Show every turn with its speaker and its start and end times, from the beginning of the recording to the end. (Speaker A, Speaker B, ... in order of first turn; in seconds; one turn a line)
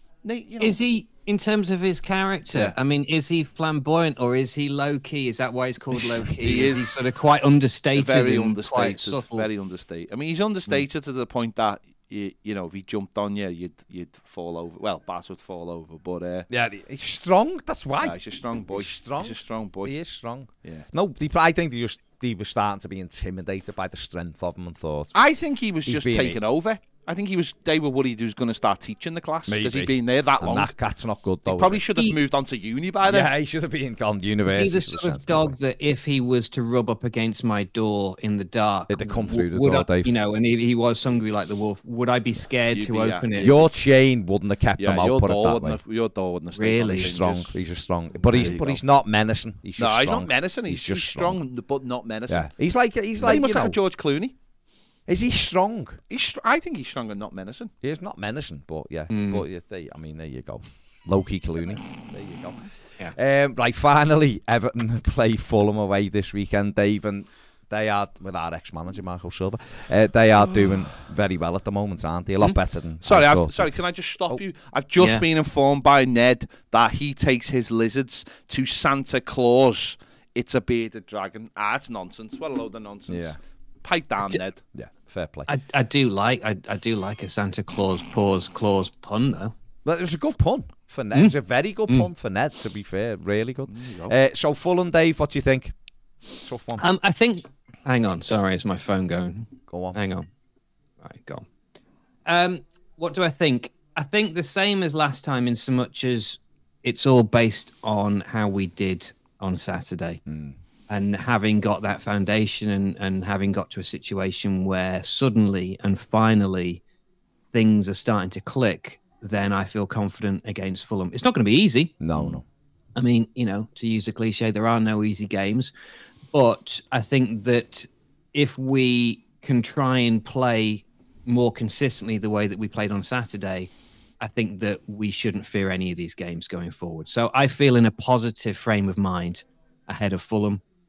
Speaker A: 0.2-0.8
Speaker B: 0.6-9.5
Speaker C: 6.0-6.3
Speaker A: 6.4-7.0
Speaker A: 8.0-16.5
Speaker C: 16.5-18.2
Speaker A: 18.0-20.0
Speaker C: 18.7-25.1
Speaker A: 25.1-30.7
Speaker C: 25.9-26.4
Speaker C: 29.5-31.9
Speaker A: 31.5-33.3
Speaker C: 33.0-35.6
Speaker B: 34.5-43.5
Speaker C: 38.9-40.1
Speaker A: 42.7-43.7
Speaker C: 43.4-45.8
Speaker A: 44.8-47.5
Speaker B: 46.5-47.1
Speaker C: 46.9-51.4
Speaker A: 48.3-48.8
Speaker A: 49.8-52.5
Speaker C: 52.3-53.8
Speaker A: 53.2-54.3
Speaker C: 55.1-56.0
Speaker A: 56.1-57.7
Speaker C: 57.8-73.8
Speaker B: 59.1-59.5
Speaker A: 73.0-84.6
Speaker B: 75.0-75.2
Speaker C: 83.1-83.4
Speaker C: 84.7-85.5
Speaker B: 85.5-89.5
Speaker C: 89.8-95.8
Speaker A: 93.7-94.1
Speaker C: 96.4-96.8
Speaker B: 96.8-100.3
Speaker C: 99.7-100.0
Speaker B: 101.0-101.5
Speaker B: 102.3-110.2
Speaker C: 110.3-110.6
Speaker B: 110.9-116.8
Speaker B: 117.5-122.0
Speaker C: 122.0-122.4
Speaker B: 123.0-125.7
Speaker B: 126.3-140.6